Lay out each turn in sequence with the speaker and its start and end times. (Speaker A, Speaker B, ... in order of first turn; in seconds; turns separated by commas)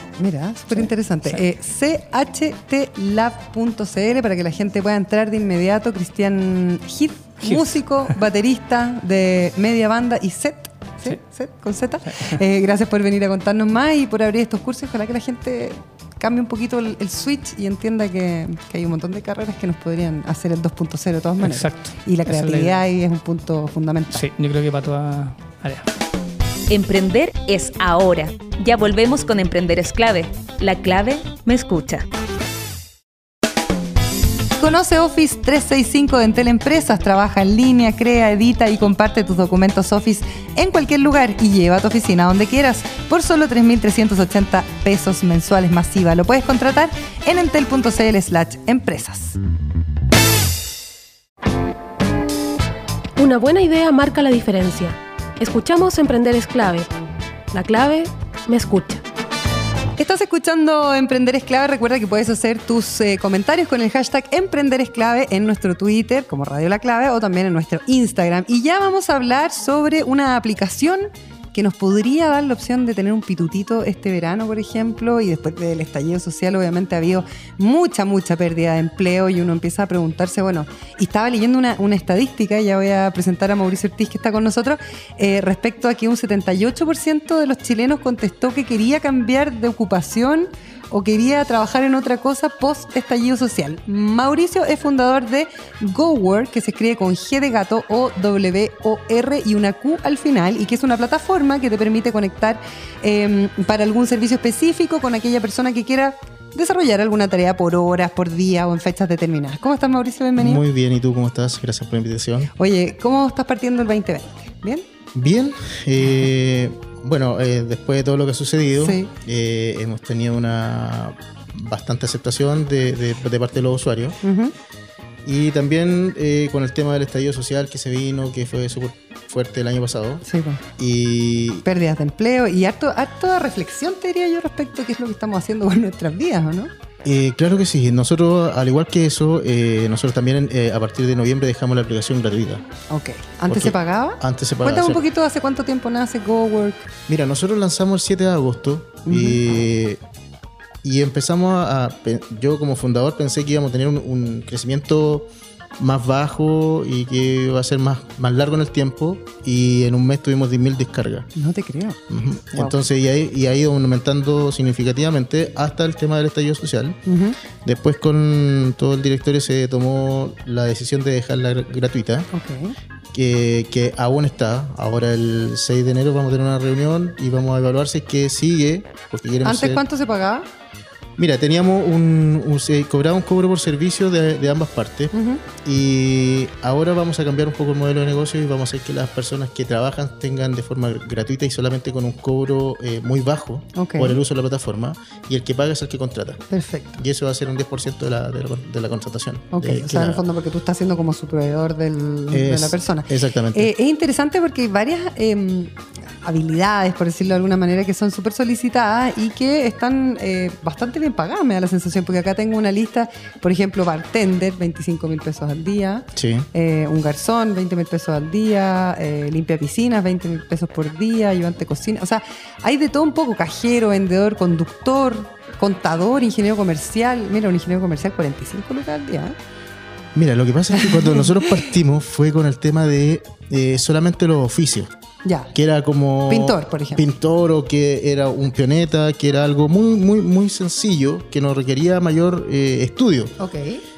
Speaker A: 0.2-24.2, Speaker B: 0.7-1.4, Speaker B: 7.4-8.2, Speaker B: 12.1-12.4, Speaker B: 21.4-22.8, Speaker B: 24.1-25.9, Speaker C: 26.7-32.0, Speaker A: 34.6-49.4, Speaker D: 53.2-56.9, Speaker D: 57.5-59.0, Speaker A: 60.0-110.6, Speaker E: 110.4-112.5, Speaker A: 112.6-114.8, Speaker E: 115.2-124.2, Speaker A: 118.8-119.1, Speaker A: 124.2-124.5, Speaker E: 125.2-130.2, Speaker A: 130.2-130.6, Speaker E: 130.8-131.7, Speaker A: 131.7-136.7, Speaker E: 137.1-142.6, Speaker A: 142.9-146.9, Speaker E: 143.5-145.0, Speaker E: 147.1-150.0, Speaker A: 149.1-149.4, Speaker E: 150.8-155.3, Speaker E: 155.8-161.3, Speaker A: 161.4-162.0, Speaker E: 162.1-167.0, Speaker A: 162.5-162.8, Speaker A: 167.1-167.4, Speaker E: 167.6-172.3, Speaker A: 172.3-172.7, Speaker E: 173.1-179.8, Speaker A: 179.4-180.5, Speaker E: 181.2-196.4, Speaker A: 185.1-185.4, Speaker A: 193.8-194.2, Speaker A: 196.5-197.0, Speaker E: 197.0-200.2, Speaker A: 199.5-229.3, Speaker E: 202.3-203.7, Speaker E: 216.2-216.5, Speaker E: 230.2-234.9, Speaker A: 230.7-231.6, Speaker A: 235.2-235.5, Speaker E: 235.5-243.3, Speaker A: 236.3-237.0, Speaker A: 243.4-243.8